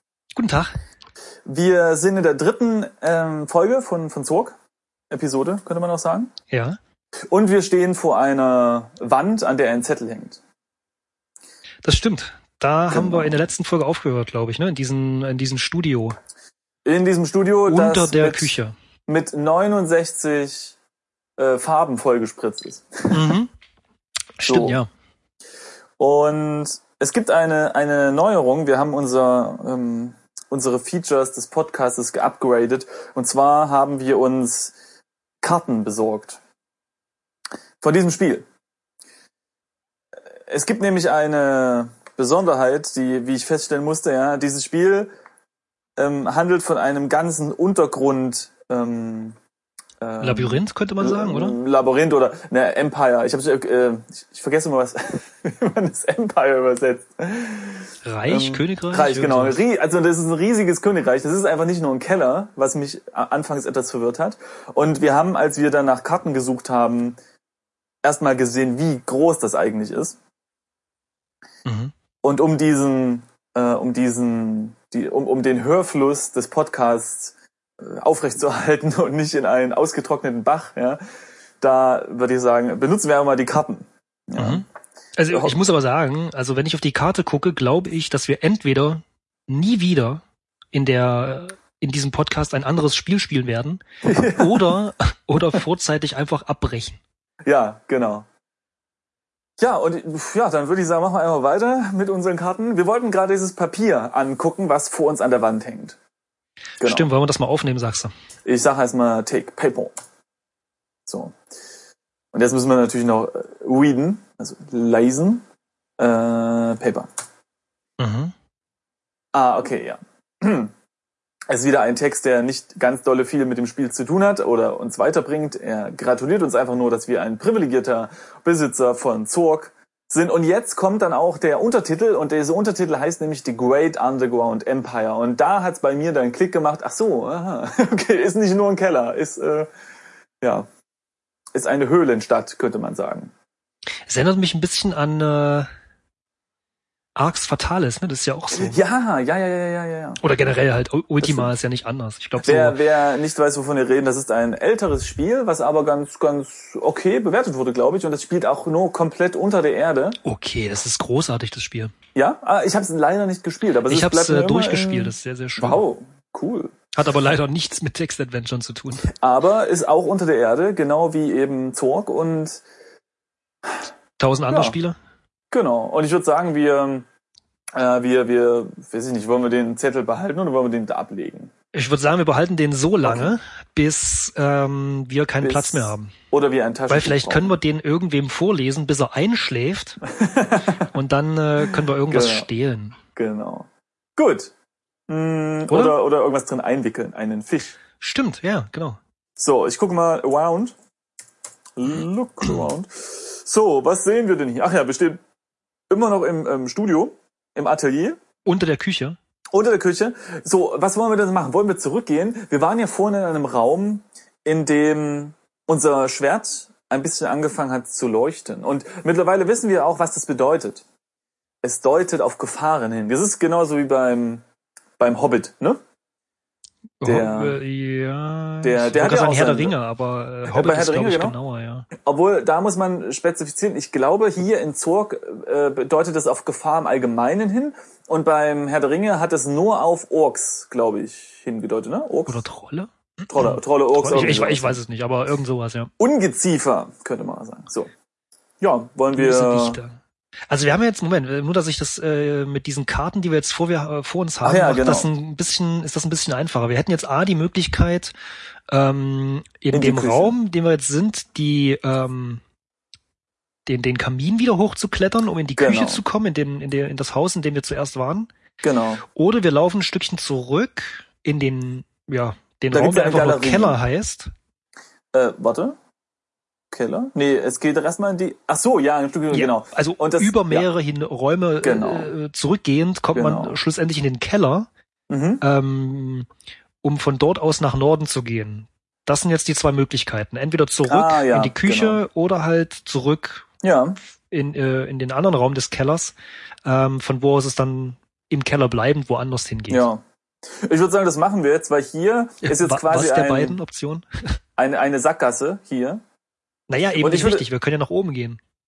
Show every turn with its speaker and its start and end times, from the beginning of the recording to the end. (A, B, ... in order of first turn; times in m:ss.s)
0:00.3-0:00.7 A
0:01.4-0:04.6 B
0:05.1-0:06.3 B
0:06.5-0:06.8 A
0:07.3-0:10.4 B
0:11.8-0:16.2 A
0:12.9-0:13.4 B
0:16.8-0:18.5 B
0:17.7-0:18.7 A
0:19.1-0:20.8 B
0:21.4-0:23.4 B
0:23.1-0:23.5 A
0:24.4-0:24.9 A
0:24.4-0:24.8 B
0:26.0-0:34.7 B
0:35.4-0:36.4 B
0:37.8-0:38.4 B
0:40.5-0:45.1 B
0:46.0-0:49.4 B
0:50.0-1:07.2 B
0:50.2-0:51.6 A
0:58.0-0:59.6 A
1:08.0-1:10.2 B
1:11.6-1:11.9 A
1:12.2-1:21.0 B
1:21.6-1:24.6 B
1:24.4-1:24.6 A
1:25.2-1:37.0 A
1:25.3-1:25.6 B
1:34.0-1:34.8 B
1:37.4-1:38.2 B
1:39.6-1:46.0 B
1:46.8-1:47.1 B
1:46.8-1:48.1 A
1:48.4-1:49.9 B
1:51.1-1:51.4 B
1:52.3-1:55.4 B
1:56.0-1:57.1 B
1:58.0-1:58.3 A
1:59.3-2:00.7 B
2:01.5-2:19.7 B
2:20.4-2:20.6 B
2:21.5-2:23.3 B
2:24.1-2:25.7 A
2:27.1-2:28.8 A
2:28.5-2:30.5 B
2:30.2-2:32.8 A
2:31.2-2:31.5 B
2:32.4-2:40.2 B
2:40.2-2:41.9 A
2:42.1-2:46.8 B
2:43.8-2:45.8 A
2:46.9-2:49.1 A
2:49.1-2:52.6 B
2:54.2-2:55.0 A
2:54.5-2:54.8 B
2:55.5-2:57.0 B
2:57.7-3:01.5 B
3:01.7-3:06.1 A
3:03.0-3:03.4 B
3:05.4-3:07.5 B
3:06.9-3:10.0 A
3:10.0-3:10.9 B
3:10.8-3:13.0 A
3:11.6-3:12.5 B
3:13.2-3:14.5 B
3:15.1-3:17.8 B
3:15.7-3:16.0 A
3:18.0-3:19.0 A
3:19.4-3:20.7 B
3:21.8-3:25.2 B
3:22.4-3:22.7 A
3:25.9-3:28.2 B
3:28.4-3:29.2 A
3:29.5-3:40.8 B
3:41.6-3:44.4 B
3:45.0-3:45.8 B
3:47.0-3:51.9 A
3:47.0-3:47.6 B
3:48.6-3:49.7 B
3:50.4-3:51.4 B
3:52.0-4:02.4 B
4:02.3-4:05.9 A
4:03.3-4:04.8 B
4:06.0-4:07.9 B
4:08.6-4:09.8 B
4:09.1-4:10.0 A
4:10.5-4:18.1 A
4:14.4-4:15.1 B
4:18.7-4:22.4 A
4:19.7-4:20.3 B
4:23.6-4:28.3 A
4:25.6-4:26.0 B
4:28.6-4:29.0 B
4:29.0-4:34.3 A
4:32.7-4:33.8 B
4:35.1-4:35.8 B
4:36.7-4:40.7 B
4:39.3-4:44.7 A
4:41.6-4:42.1 B
4:43.1-4:43.6 B
4:45.1-4:45.4 B
4:45.4-4:46.3 A
4:46.8-4:53.4 A
4:50.8-4:52.0 B
4:53.6-4:54.0 B
4:54.3-4:59.9 A
4:59.7-5:03.6 B
5:02.4-5:04.1 A
5:04.6-5:06.0 B
5:06.7-5:08.4 A
5:07.0-5:07.4 B